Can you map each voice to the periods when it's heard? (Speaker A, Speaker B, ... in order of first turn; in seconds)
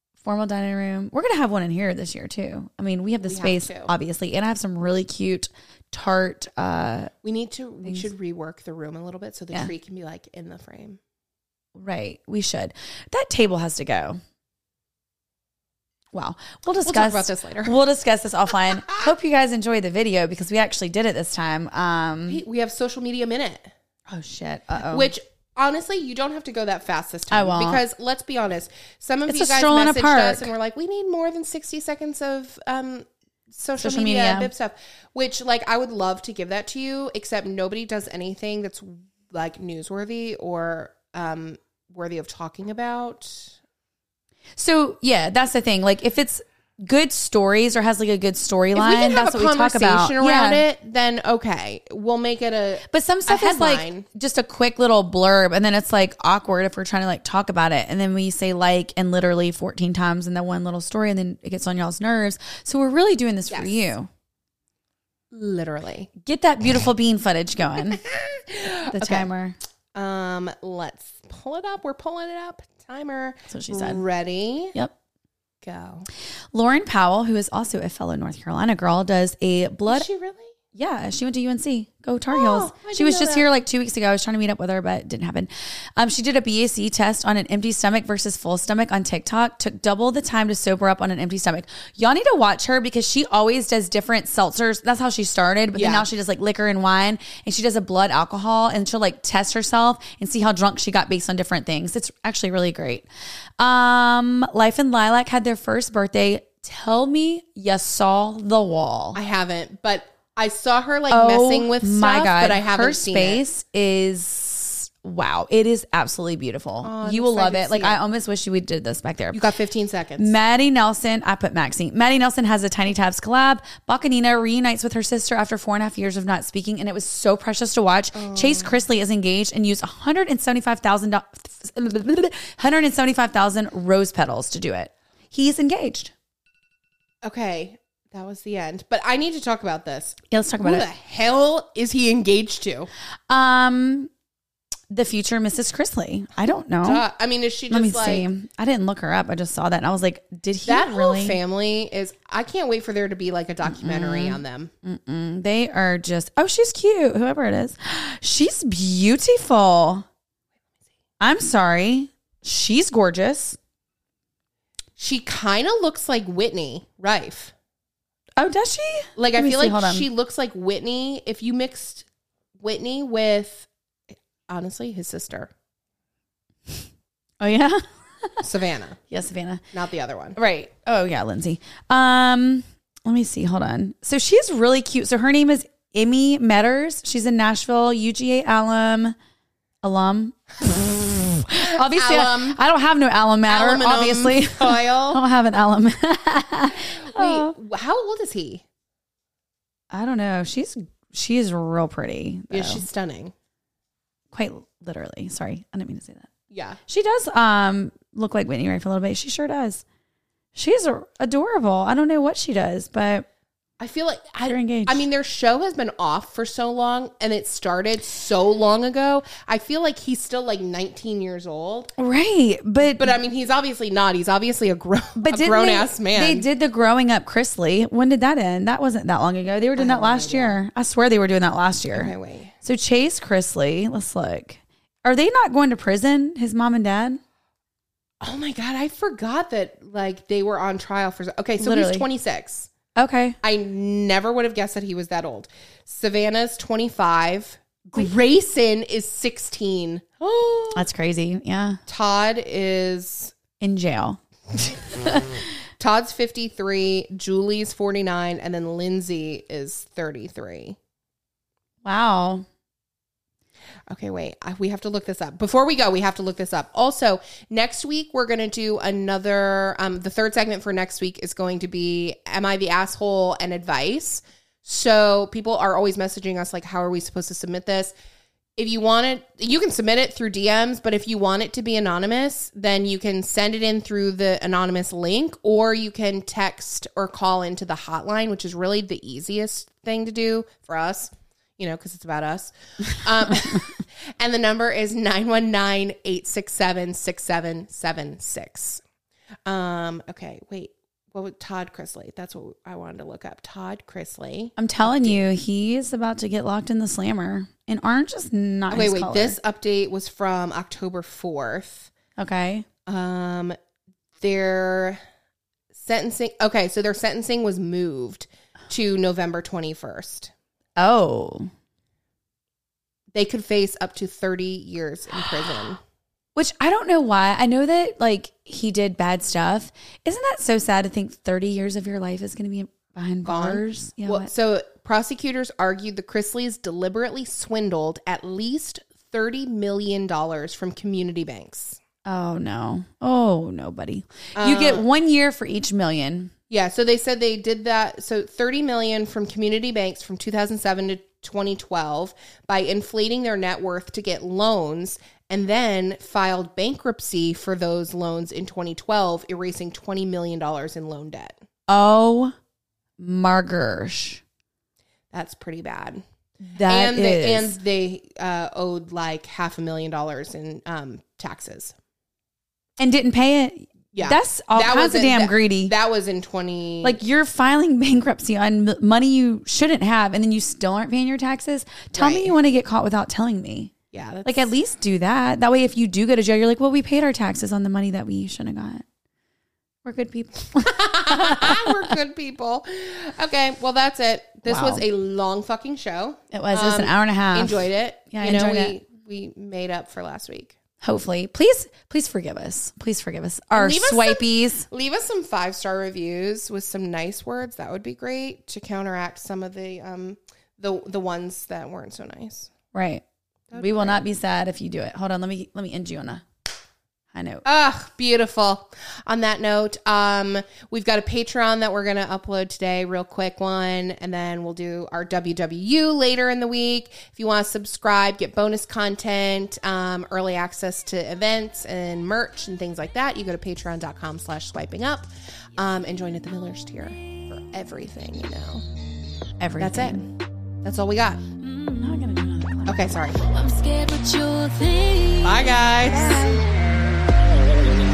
Speaker A: 0.2-7.1, 11.7-14.2, 16.1-22.4, 24.1-25.1, 27.3-27.8, 29.3-30.5, 33.8-34.5, 44.6-50.6, 52.9-64.1, 66.2-68.0, 68.9-69.5, 73.5-74.0, 76.5-80.1, 80.7-103.0, 103.6-109.2, 111.1-119.4, 120.2-136.1, 140.3-140.9, 143.3-144.1, 144.9-147.0, 147.7-151.4, 153.6-160.1, 161.2-163.6, 168.4-170.1, 177.4-178.4, 179.1-179.6, 180.3-189.1, 189.8-197.5, 199.9-202.8, 204.3-206.3, 206.9-209.8, 210.5-213.2, 214.5-215.0, 222.0-223.2, 225.2-237.2, 241.6-242.1, 243.0-243.4, 250.7-251.8, 253.6-254.2, 255.0-255.3, 261.8-262.4, 304.6-309.4, 312.2-312.7, 320.8-321.5, 326.4-334.3, 342.1-346.3, 361.7-362.3, 363.0-364.2, 366.5-367.5, 372.8-375.7, 376.8-383.7, 384.2-388.8, 389.8-391.9, 394.4-394.8, 396.3-398.8, 400.8-404.7, 412.7-413.0, 413.6-416.2, 417.1-417.4, 439.4-440.1, 441.8-442.8
Speaker B: 3.2-3.9, 7.2-11.0, 16.9-17.8, 22.3-23.7, 24.9-43.5, 48.7-54.0, 63.5-63.9, 65.3-66.1, 67.9-69.3, 69.9-74.8, 75.6-76.1, 79.9-80.5, 82.3-83.5, 95.7-96.1, 109.1-113.4, 116.8-118.0, 119.3-120.3, 128.1-128.8, 137.2-142.9, 146.8-148.3, 150.6-154.7, 165.0-167.5, 169.2-172.1, 172.6-173.7, 174.5-175.5, 178.4-179.0, 179.7-180.4, 191.6-192.6, 193.5-195.2, 197.0-198.6, 202.5-203.3, 206.5-206.8, 213.8-221.9, 223.0-226.4, 229.8-230.6, 231.9-232.5, 238.2-242.7, 243.4-250.8, 251.9-253.3, 255.8-260.8, 263.9-277.9, 278.6-298.8, 299.4-305.2, 308.7-311.9, 312.9-313.6, 314.2-315.0, 315.7-320.3, 323.1-325.8, 333.2-341.8, 344.4-344.9, 346.5-361.4, 365.1-366.0, 366.5-371.7, 373.9-377.0, 381.9-382.3, 383.9-384.5, 390.6-400.6, 403.5-412.5, 413.5-414.0, 417.4-438.6, 439.6-440.0, 440.6-441.2, 442.7-443.2, 445.2-446.2
Speaker C: 443.1-446.4